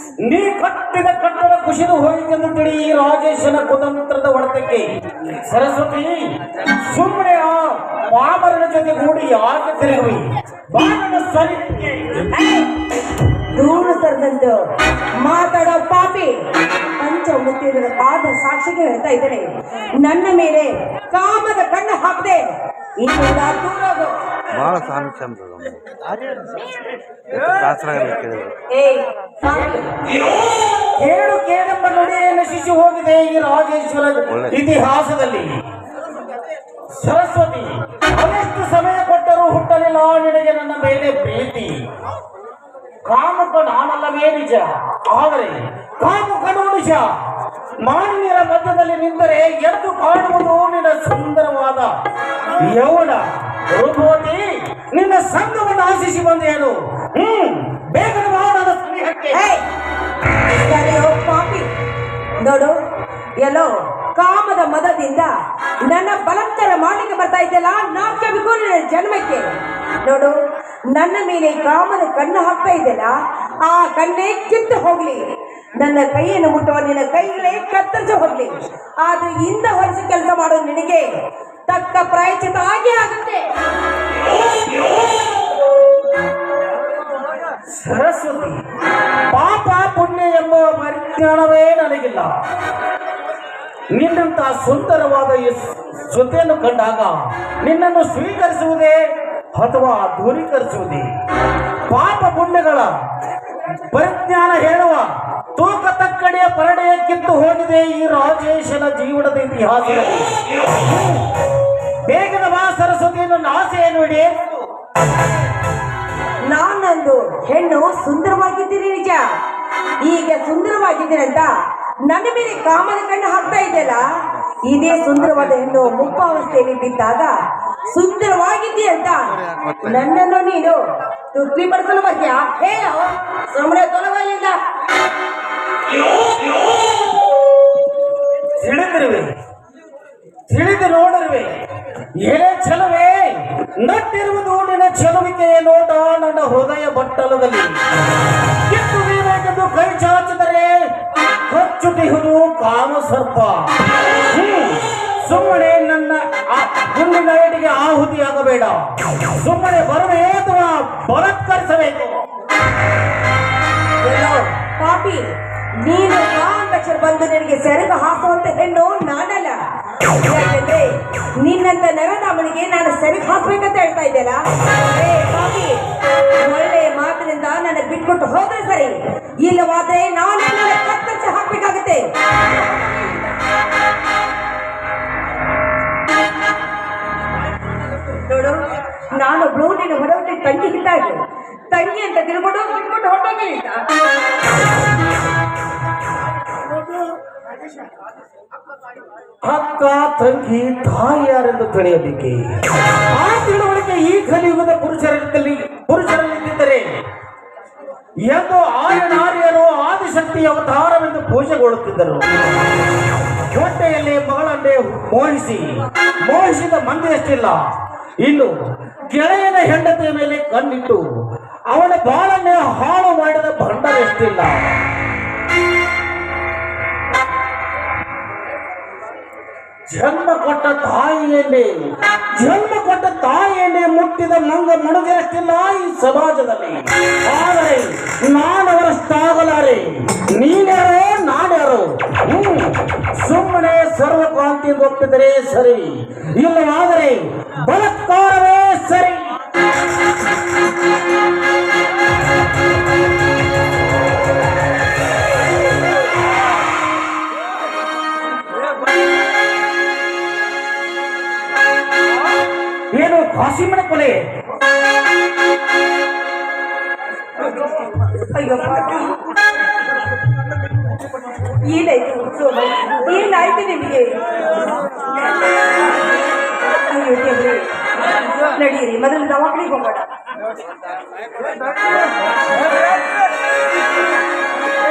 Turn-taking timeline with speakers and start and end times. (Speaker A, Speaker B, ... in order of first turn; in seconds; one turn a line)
Speaker A: 0.2-12.3
Speaker B: 12.3-12.7
Speaker B: 13.5-14.7
Speaker B: 15.2-24.2
Speaker C: 24.5-26.1
Speaker C: 27.3-28.6
Speaker B: 28.7-29.8
Speaker A: 29.5-35.5
Speaker A: 37.0-41.8
Speaker A: 43.0-47.1
Speaker A: 47.8-51.9
Speaker A: 52.6-59.4
Speaker B: 59.3-59.6
Speaker B: 60.6-61.7
Speaker B: 62.4-62.8
Speaker B: 63.4-65.3
Speaker B: 65.8-69.5
Speaker B: 70.0-70.3
Speaker B: 70.9-75.2
Speaker B: 75.8-81.1
Speaker B: 81.7-83.5
Speaker A: 87.7-88.6
Speaker A: 89.3-92.3
Speaker A: 93.9-99.0
Speaker A: 99.5-101.1
Speaker A: 101.9-102.9
Speaker A: 103.8-111.3
Speaker A: 112.0-114.6
Speaker B: 116.5-119.2
Speaker B: 120.0-121.5
Speaker B: 122.1-124.1
Speaker B: 124.7-127.3
Speaker B: 127.9-134.6
Speaker A: 138.6-139.3
Speaker A: 140.5-141.6
Speaker A: 142.1-147.8
Speaker A: 148.5-150.8
Speaker A: 151.5-162.2
Speaker B: 164.0-165.3
Speaker B: 165.8-183.4
Speaker B: 188.1-193.8
Speaker A: 199.4-206.9
Speaker A: 208.2-212.3
Speaker A: 213.5-217.6
Speaker A: 218.2-218.5
Speaker A: 219.1-221.0
Speaker A: 221.7-224.8
Speaker A: 229.9-231.7
Speaker A: 232.3-249.2
Speaker A: 262.9-264.2
Speaker B: 268.1-269.1
Speaker B: 271.6-274.2
Speaker B: 276.8-277.8
Speaker B: 278.5-280.1